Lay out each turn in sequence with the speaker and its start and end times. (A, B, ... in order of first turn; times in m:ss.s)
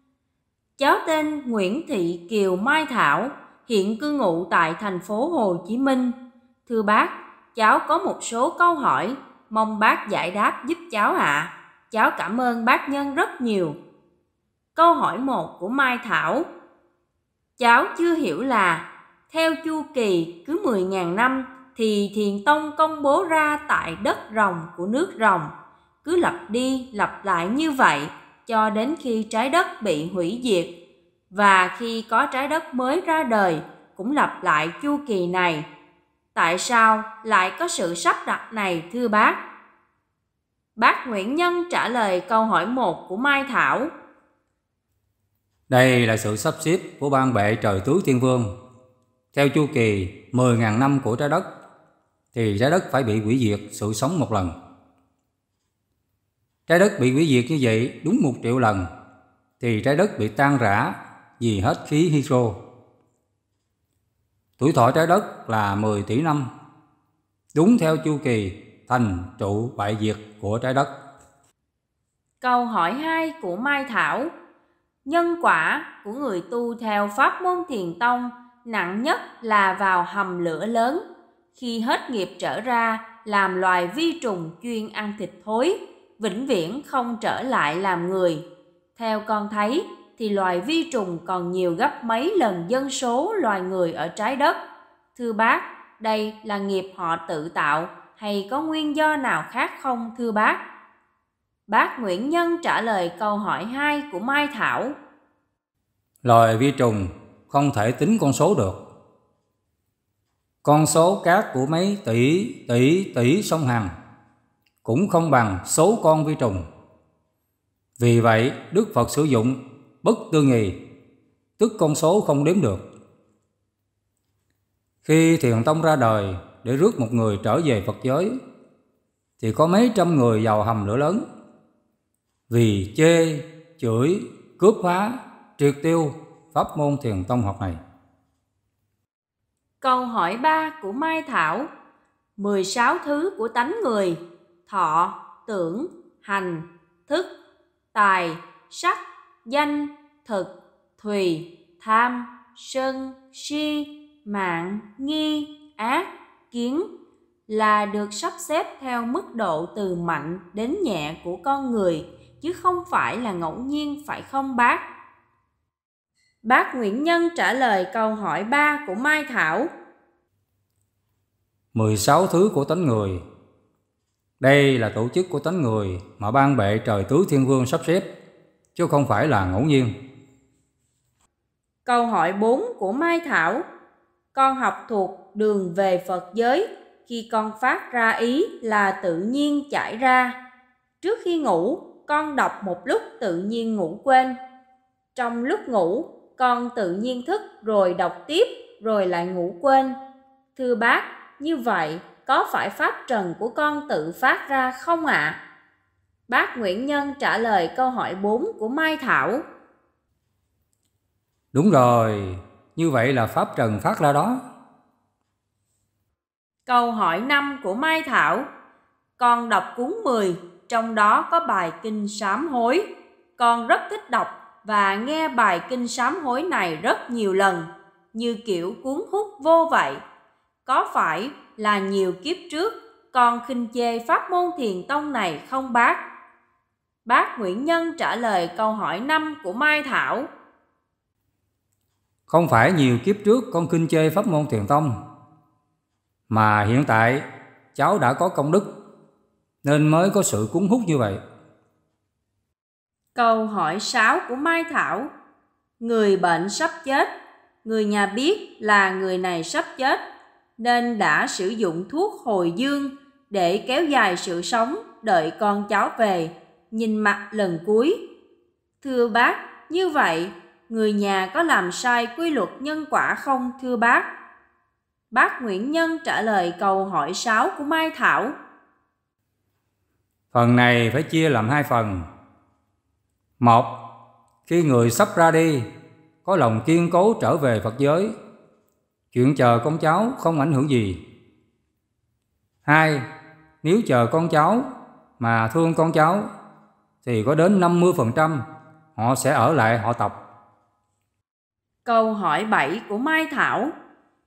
0:00.8-0:06.1 A
0:06.7-0:13.8 A
0:14.8-0:16.5 A
0:17.6-0:25.5 A
0:26.0-0:30.7 A
0:31.3-0:35.7 A
0:36.3-0:39.4 A
0:40.8-0:43.9 A
0:45.7-0:48.5 B
0:49.3-0:51.4 B
0:52.3-0:54.5 B
0:56.7-0:58.9 B
0:59.6-1:02.6 B
1:04.6-1:06.5 B
1:07.5-1:10.9 B
1:12.4-1:14.3 A
1:15.0-1:21.0 A
1:21.5-1:28.4 A
1:29.0-1:34.6 A
1:35.2-1:40.6 A
1:41.7-1:45.0 A
1:46.2-1:48.8 B
1:50.6-1:53.9 B
1:54.8-1:56.7 B
1:58.0-2:00.8 B
2:01.6-2:02.8 B
2:05.0-2:08.4 B
2:09.4-2:11.2 B
2:12.5-2:17.8 B
2:19.8-2:21.7 A
2:22.4-2:27.3 A
2:27.9-2:36.9 A
2:37.5-2:44.8 A
2:46.4-2:49.7 A
2:51.7-2:53.2 B
2:54.4-2:58.1 B
2:58.7-2:59.9 B
3:01.8-3:03.6 A
3:04.3-3:10.4 A
3:11.0-3:14.4 A
3:15.1-3:20.0 A
3:20.6-3:25.4 A
3:26.3-3:29.4 A
3:31.5-3:34.4 B
3:36.6-3:38.5 A
3:39.2-3:50.0 A
3:50.6-3:56.0 A
3:57.0-4:00.3 A
4:02.3-4:05.0 B
4:06.3-4:08.7 B
4:09.6-4:11.2 B
4:13.1-4:15.1 A
4:15.8-4:17.1 A
4:17.6-4:20.0 A
4:20.6-4:28.0 A
4:28.8-4:34.1 A
4:35.1-4:38.4 A
4:40.3-4:42.1 B
4:43.4-4:43.7 B
4:44.5-4:45.7 B
4:46.2-4:48.2 B
4:49.1-4:51.0 B
4:52.6-4:53.0 B
4:53.6-4:56.3 B
4:57.0-5:00.2 B
5:01.8-5:03.7 A